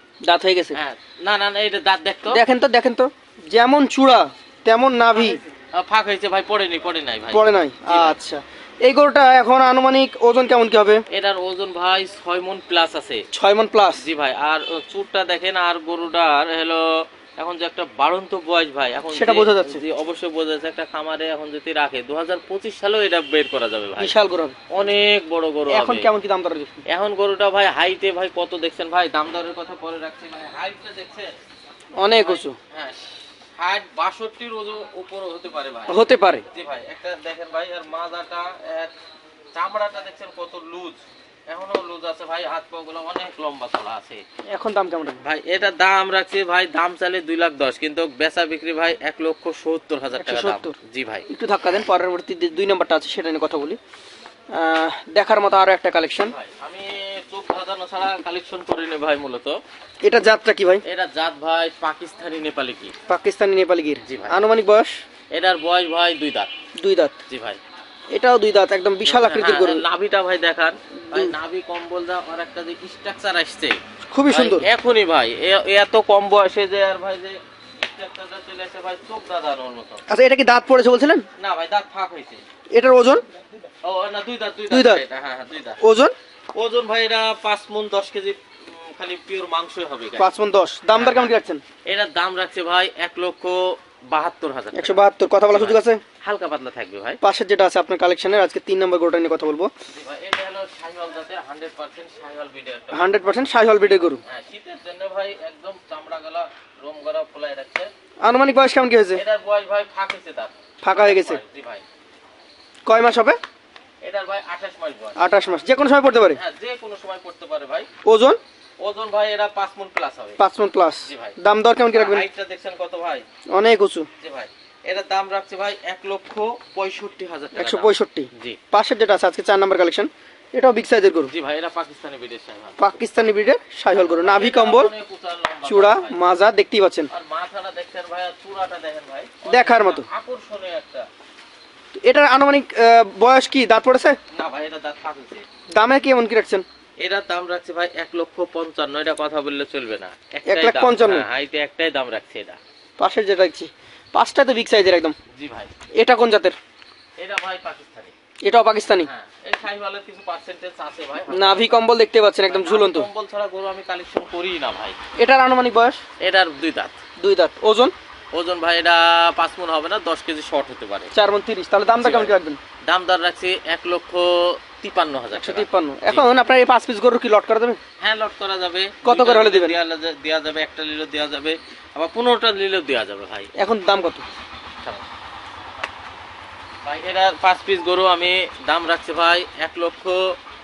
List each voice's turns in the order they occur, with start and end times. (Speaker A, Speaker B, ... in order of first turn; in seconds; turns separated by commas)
Speaker A: 0.3-0.8, Speaker B: 0.7-2.4, Speaker A: 2.3-5.4, Speaker B: 5.1-8.2, Speaker A: 7.3-11.0, Speaker B: 11.1-13.2, Speaker A: 13.3-14.0, Speaker B: 14.0-24.1, Speaker A: 19.1-19.8, Speaker A: 24.0-24.6, Speaker B: 24.7-26.1, Speaker A: 25.7-26.8, Speaker B: 26.9-31.3, Speaker A: 32.0-32.5, Speaker B: 32.1-36.0, Speaker A: 35.9-36.4, Speaker B: 36.5-38.9, Speaker B: 39.5-44.2, Speaker A: 44.5-45.2, Speaker B: 45.2-51.2, Speaker A: 50.2-50.7, Speaker A: 51.3-53.8, Speaker A: 54.5-56.3, Speaker B: 56.2-59.6, Speaker A: 60.0-60.8, Speaker B: 60.8-62.9, Speaker A: 63.1-64.9, Speaker B: 64.0-64.3, Speaker B: 65.3-66.5, Speaker A: 66.8-67.2, Speaker B: 67.3-67.6, Speaker A: 68.1-69.8, Speaker B: 69.0-80.0, Speaker A: 74.1-74.7, Speaker A: 80.1-81.2, Speaker B: 81.4-82.4, Speaker A: 82.7-83.2, Speaker B: 83.8-85.8, Speaker A: 84.7-85.0, Speaker A: 85.8-86.1, Speaker B: 86.5-90.3, Speaker A: 90.2-91.6, Speaker B: 90.9-91.3, Speaker B: 91.8-97.2, Speaker A: 94.7-96.0, Speaker A: 97.2-99.7, Speaker B: 99.9-103.5, Speaker A: 102.9-104.2, Speaker B: 104.2-107.9, Speaker A: 108.2-109.2, Speaker B: 109.1-111.8, Speaker A: 110.8-111.4, Speaker A: 112.8-113.4, Speaker B: 114.0-115.2, Speaker A: 115.2-116.4, Speaker B: 116.3-117.9, Speaker A: 118.0-118.4, Speaker B: 118.8-120.4, Speaker A: 120.4-122.2, Speaker B: 121.0-121.4, Speaker B: 121.9-123.2, Speaker A: 123.5-124.1, Speaker B: 124.2-128.6, Speaker A: 127.5-131.3, Speaker B: 131.3-132.8, Speaker A: 132.8-134.9, Speaker B: 133.9-136.2, Speaker A: 135.7-137.1, Speaker B: 137.1-141.1, Speaker A: 139.4-140.1, Speaker A: 142.0-144.2, Speaker B: 144.3-145.4, Speaker A: 145.8-146.6, Speaker B: 147.0-152.6, Speaker A: 150.5-151.2, Speaker A: 153.0-155.2, Speaker B: 155.3-155.7, Speaker A: 156.0-156.6, Speaker B: 157.2-158.1, Speaker A: 158.4-159.1, Speaker B: 159.0-161.8, Speaker A: 161.3-163.1, Speaker B: 162.5-165.0, Speaker A: 165.2-166.0, Speaker B: 166.2-166.9, Speaker A: 167.2-167.9, Speaker B: 168.3-171.1, Speaker A: 171.1-172.6, Speaker B: 172.0-176.2, Speaker A: 175.3-177.8, Speaker B: 178.0-183.5, Speaker A: 179.0-179.7, Speaker A: 183.6-184.2, Speaker B: 186.8-190.4